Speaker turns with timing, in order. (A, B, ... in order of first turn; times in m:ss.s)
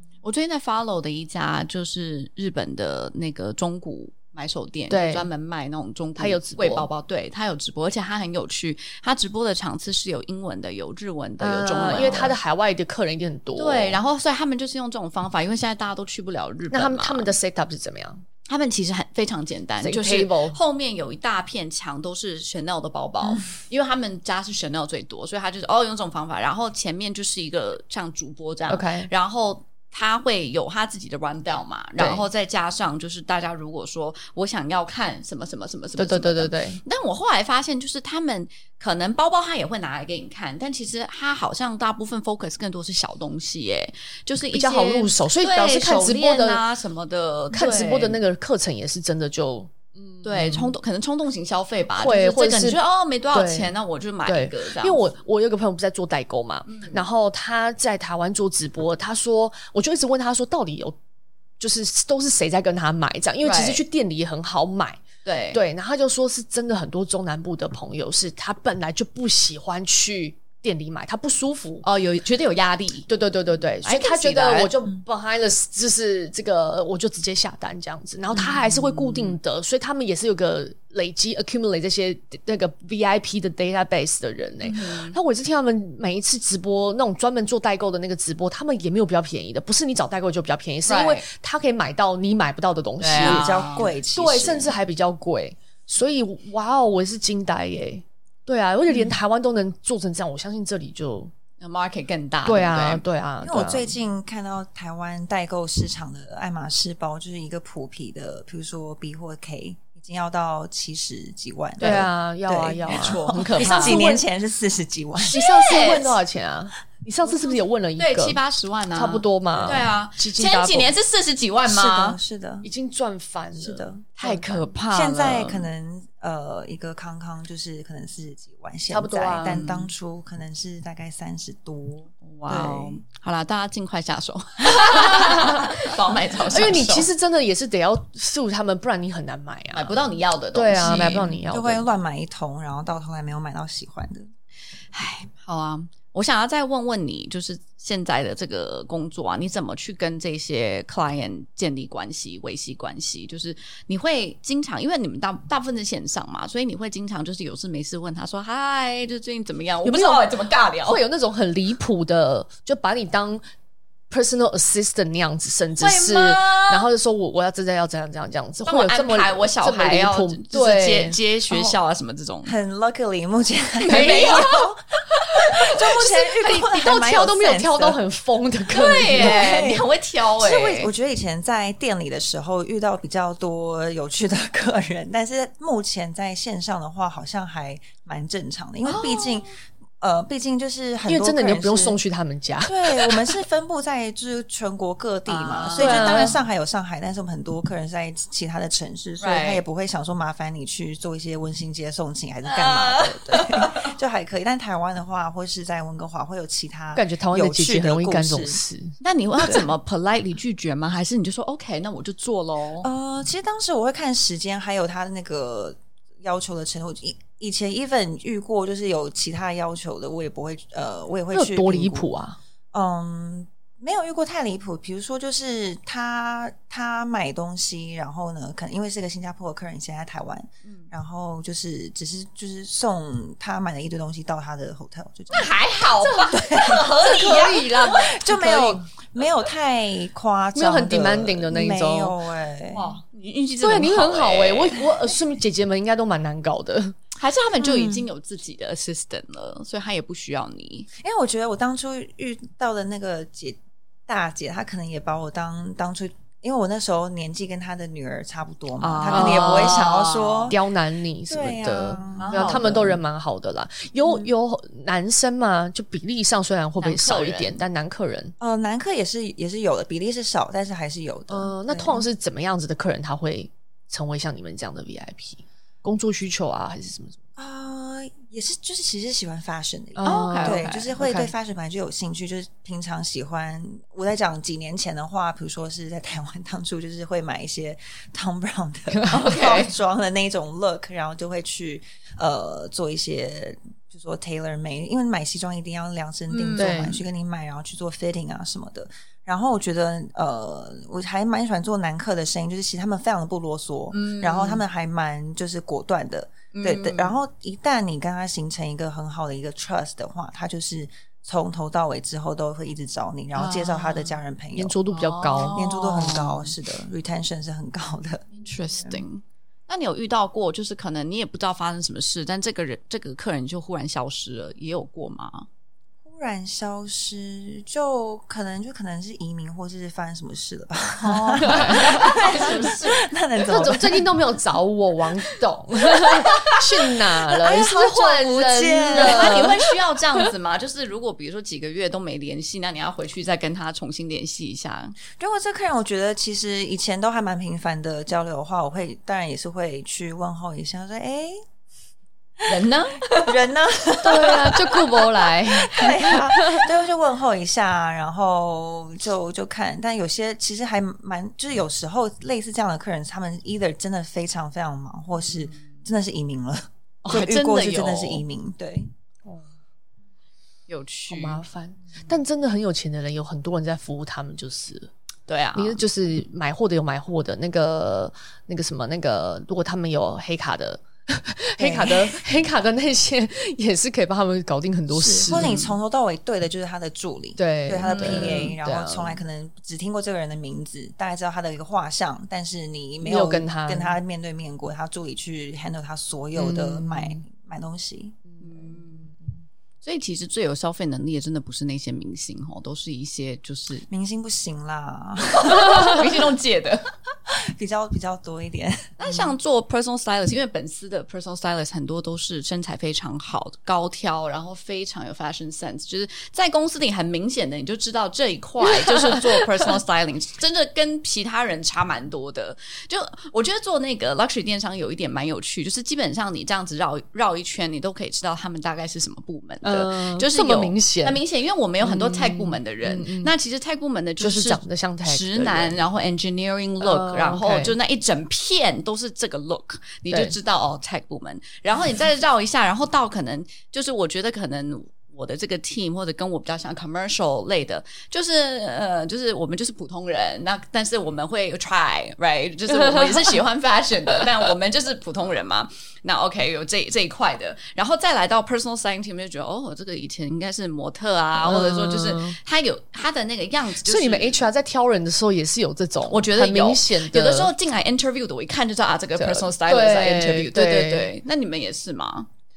0:00.2-0:12.4 A
0:04.9-0:05.3 B
0:06.2-0:06.9 B
0:11.4-0:14.0 B
0:13.6-0:17.3 A
0:16.7-0:18.2 B
0:18.5-0:48.2 A
0:19.8-0:20.6 B
0:28.7-0:29.1 B
0:32.0-0:32.2 B
0:36.0-0:36.8 B
0:44.5-0:46.6 B
0:47.5-0:50.7 B
0:50.2-0:55.1 A
0:52.0-0:52.8 B
0:53.3-0:53.7 B
0:54.2-1:01.0 B
0:56.7-0:57.0 A
1:01.6-1:11.8 B
1:03.4-1:03.8 A
1:05.2-1:05.6 A
1:11.8-1:13.1 A
1:13.1-1:41.3 B
1:13.8-1:14.7 A
1:18.3-1:19.4 A
1:24.6-1:25.2 A
1:30.8-1:31.2 A
1:33.0-1:33.9 A
1:33.1-1:34.7 C
1:41.6-1:43.0 A
1:42.4-1:43.9 B
1:43.4-1:55.4 C
1:51.8-1:54.2 B
1:52.8-1:54.0 A
1:55.2-1:58.4 B
1:55.3-1:56.2 A
1:57.2-2:02.2 A
1:58.9-2:00.9 B
2:01.6-2:02.7 C
2:02.6-2:04.7 B
2:03.6-2:04.0 C
2:04.2-2:05.7 A
2:04.9-2:13.0 C
2:08.9-2:09.6 B
2:09.4-2:09.9 A
2:12.2-2:17.1 A
2:14.9-2:15.7 B
2:16.5-2:21.8 B
2:19.7-2:21.4 A
2:20.8-2:24.3 C
2:24.9-2:41.0 A
2:39.8-2:40.3 B
2:40.8-2:43.4 B
2:44.1-2:51.2 B
2:45.8-2:46.9 A
2:48.6-2:52.6 A
2:51.5-2:51.8 C
2:52.4-2:58.0 C
2:53.8-2:55.6 A
2:53.9-2:54.4 B
2:56.0-2:59.5 B
2:58.7-3:00.9 A
2:59.1-3:12.0 C
3:08.8-3:09.5 A
3:11.1-3:13.4 B
3:12.6-3:28.6 C
3:15.3-3:16.3 A
3:15.8-3:16.4 B
3:19.2-3:19.6 A
3:22.5-3:23.9 A
3:26.9-3:29.0 B
3:29.0-3:32.9 A
3:32.8-3:42.1 C
3:41.3-3:42.4 B
3:42.7-4:03.0 C
3:50.6-3:50.9 A
3:55.3-3:58.7 A
3:57.2-3:58.8 B
4:00.5-4:02.1 B
4:02.7-4:04.9 A
4:03.6-4:07.0 B
4:07.2-4:10.9 A
4:07.6-4:08.1 C
4:11.0-4:20.6 C
4:18.8-4:20.5 A
4:19.1-4:19.8 B
4:20.5-4:28.3 B
4:21.3-4:23.0 C
4:22.2-4:22.9 A
4:26.8-4:27.6 A
4:28.4-4:32.0 C
4:31.3-4:37.2 B
4:37.4-5:14.8 C
4:40.0-4:41.3 B
4:40.0-4:40.9 A
4:48.9-4:49.3 B
4:49.1-4:49.7 A
4:56.3-4:57.0 A
4:56.6-4:57.0 B
5:03.9-5:04.6 A
5:06.5-5:07.2 A
5:13.3-5:14.2 A
5:14.6-5:15.6 B
5:14.9-5:16.5 A
5:15.5-5:19.0 C
5:18.3-5:25.5 A
5:26.0-5:34.1 C
5:31.0-5:33.0 A
5:31.4-5:32.2 B
5:33.5-5:39.6 B
5:37.3-5:39.6 C
5:38.9-5:45.0 A
5:45.1-5:51.4 C
5:52.4-6:08.9 C
5:52.5-5:53.4 A
5:54.0-5:56.6 B
5:54.2-5:55.9 A
6:05.2-6:05.8 A
6:07.0-6:08.2 A
6:10.7-6:11.4 A
6:11.1-6:14.9 B
6:15.3-6:15.8 A
6:15.5-6:25.6 B
6:21.6-6:22.2 C
6:24.9-6:38.2 C
6:25.3-6:25.7 A
6:27.4-6:29.2 B
6:27.8-6:28.5 A
6:33.0-6:34.0 B
6:36.4-6:37.2 B
6:38.3-6:39.3 B
6:38.4-6:39.1 A
6:39.8-6:43.9 A
6:43.9-6:46.3 C
6:45.4-6:46.9 A
6:47.3-6:49.0 C
6:49.0-7:44.4 A
6:58.8-6:59.4 B
7:09.6-7:11.2 B
7:11.8-7:13.3 B
7:14.2-7:15.8 B
7:16.8-7:17.8 B
7:32.7-7:33.2 B
7:41.4-7:42.4 B
7:43.8-7:47.5 B
7:46.1-7:52.3 A
7:49.2-7:51.1 B